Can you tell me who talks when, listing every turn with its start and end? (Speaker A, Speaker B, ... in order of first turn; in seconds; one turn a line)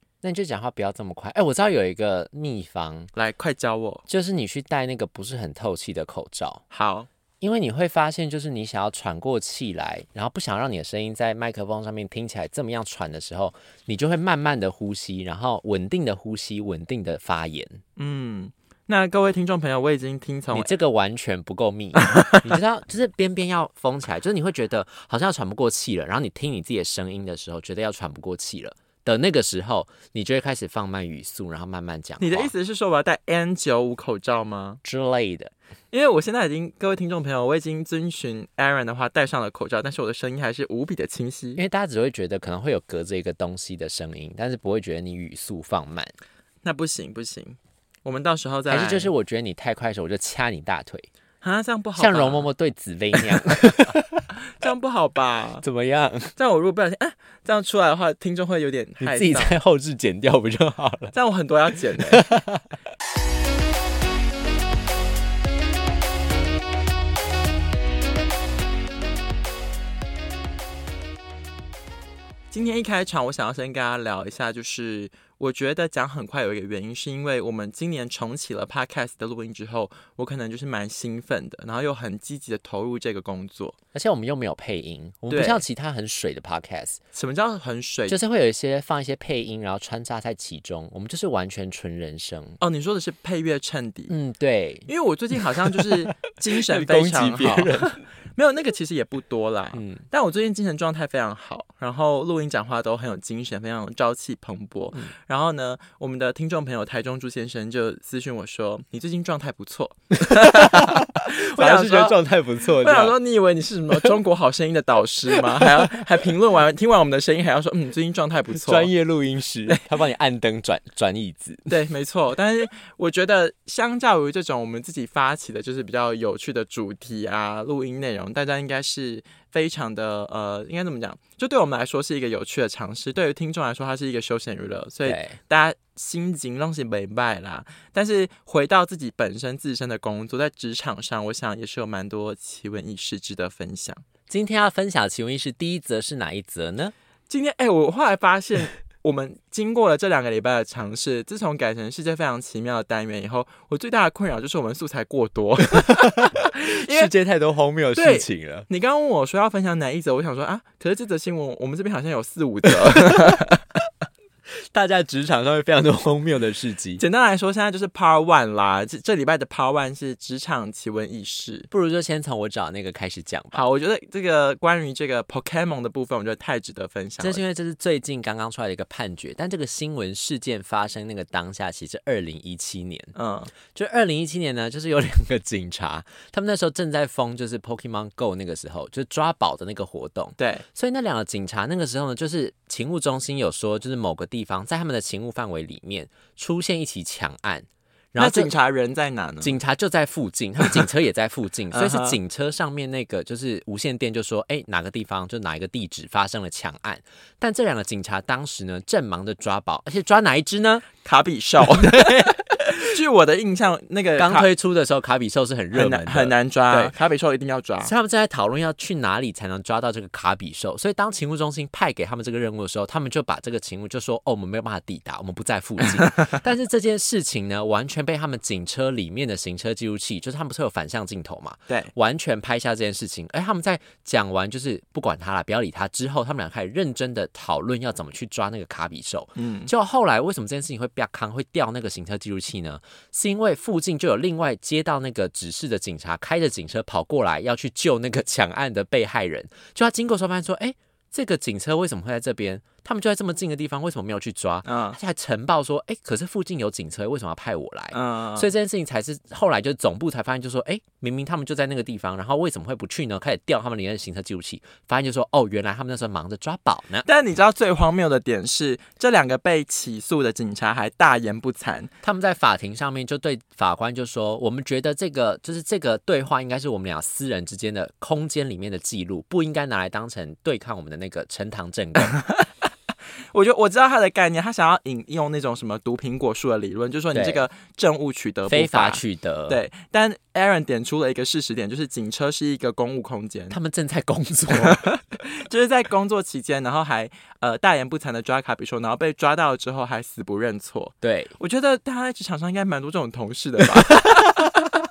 Speaker A: 0.2-3.1
Speaker B: 3.1-4.0
Speaker A: 4.1-6.6
Speaker B: 6.7-7.1
Speaker A: 7.4-17.8
Speaker B: 18.0-20.7
Speaker A: 20.5-32.5
Speaker B: 22.0-22.4
Speaker B: 32.2-34.8
Speaker A: 34.8-35.5
Speaker B: 35.9-41.6
Speaker A: 41.6-46.1
Speaker B: 46.6-49.1
Speaker A: 48.7-51.1
Speaker B: 51.4-52.5
Speaker A: 52.0-54.2
Speaker B: 54.5-55.6
Speaker A: 55.6-56.4
Speaker B: 56.4-59.5
Speaker A: 59.0-61.1
Speaker B: 61.1-62.2
Speaker A: 62.1-62.7
Speaker B: 72.5-83.8
Speaker A: 83.9-87.0
Speaker B: 85.3-85.6
Speaker B: 87.1-88.2
Speaker A: 88.1-92.6
Speaker B: 92.6-94.1
Speaker A: 94.1-98.0
Speaker B: 94.9-112.2
Speaker A: 99.7-100.0
Speaker A: 110.2-113.2
Speaker B: 112.8-118.9
Speaker A: 115.4-116.0
Speaker A: 118.5-121.7
Speaker B: 121.7-144.0
Speaker A: 135.1-135.4
Speaker A: 144.3-146.9
Speaker B: 147.3-157.1
Speaker A: 155.8-158.7
Speaker B: 157.9-163.6
Speaker A: 162.9-163.5
Speaker A: 164.7-167.0
Speaker B: 167.0-171.7
Speaker A: 171.7-173.6
Speaker B: 173.5-177.4
Speaker A: 177.2-183.1
Speaker B: 183.2-183.5
Speaker A: 183.7-198.5
Speaker B: 190.4-190.6
Speaker B: 198.2-199.6
Speaker A: 199.4-210.9
Speaker B: 201.7-202.2
Speaker B: 211.0-214.5
Speaker A: 211.6-212.8
Speaker A: 214.2-216.9
Speaker B: 215.7-217.9
Speaker A: 217.8-267.1
Speaker B: 239.4-239.7
Speaker B: 254.7-255.0
Speaker B: 257.9-258.5
Speaker B: 267.1-271.9
Speaker A: 272.0-282.2
Speaker B: 283.3-293.6
Speaker A: 287.1-287.4
Speaker A: 288.5-289.6
Speaker A: 293.5-294.9
Speaker B: 294.5-304.6
Speaker A: 301.0-301.3
Speaker A: 303.9-304.5